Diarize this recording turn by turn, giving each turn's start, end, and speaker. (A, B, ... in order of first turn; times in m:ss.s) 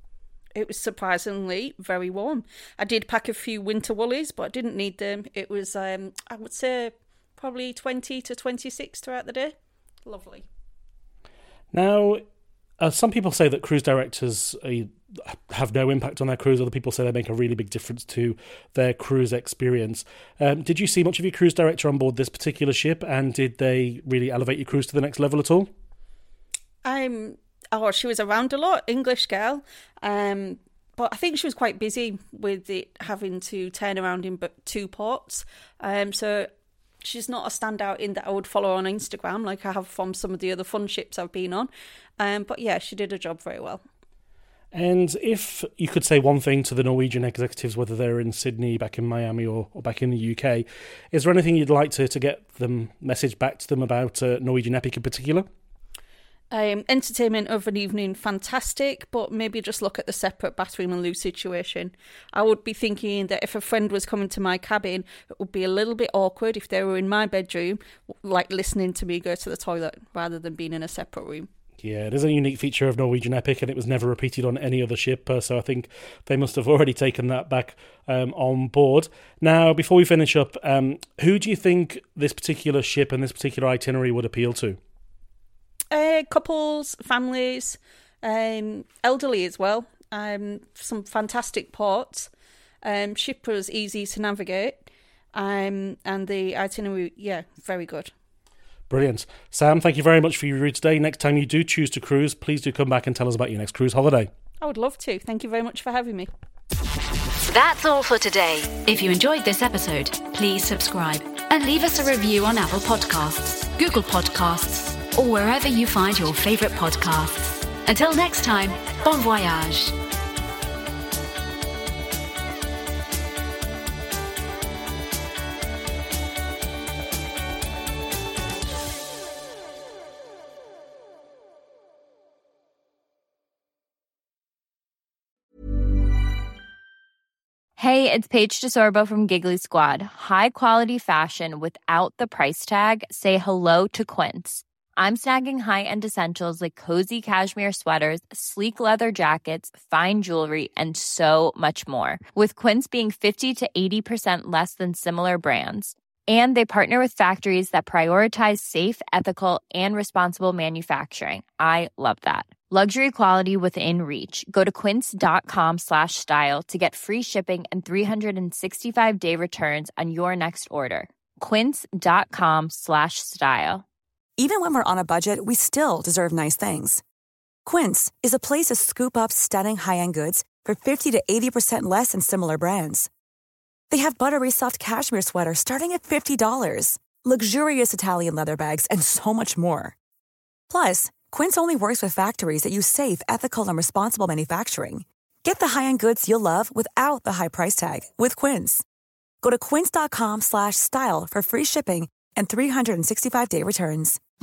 0:00.5-0:10.4 A
0:11.7-0:12.2 B
0:12.8-0:25.7 B
0:26.8-0:36.5 A
0:37.0-0:43.8 A
0:44.7-0:55.5 B
0:56.5-1:11.5 A
1:11.8-1:24.8 B
1:25.9-1:32.3 A
1:32.8-1:38.1 A
1:38.9-1:44.3 B
1:44.6-1:46.3 A
1:47.5-2:00.0 C
2:17.8-2:53.8 D
2:54.4-2:57.0 E
2:57.6-3:03.1 E
3:03.9-3:09.9 E
3:10.7-3:18.8 E
3:19.4-3:24.2 E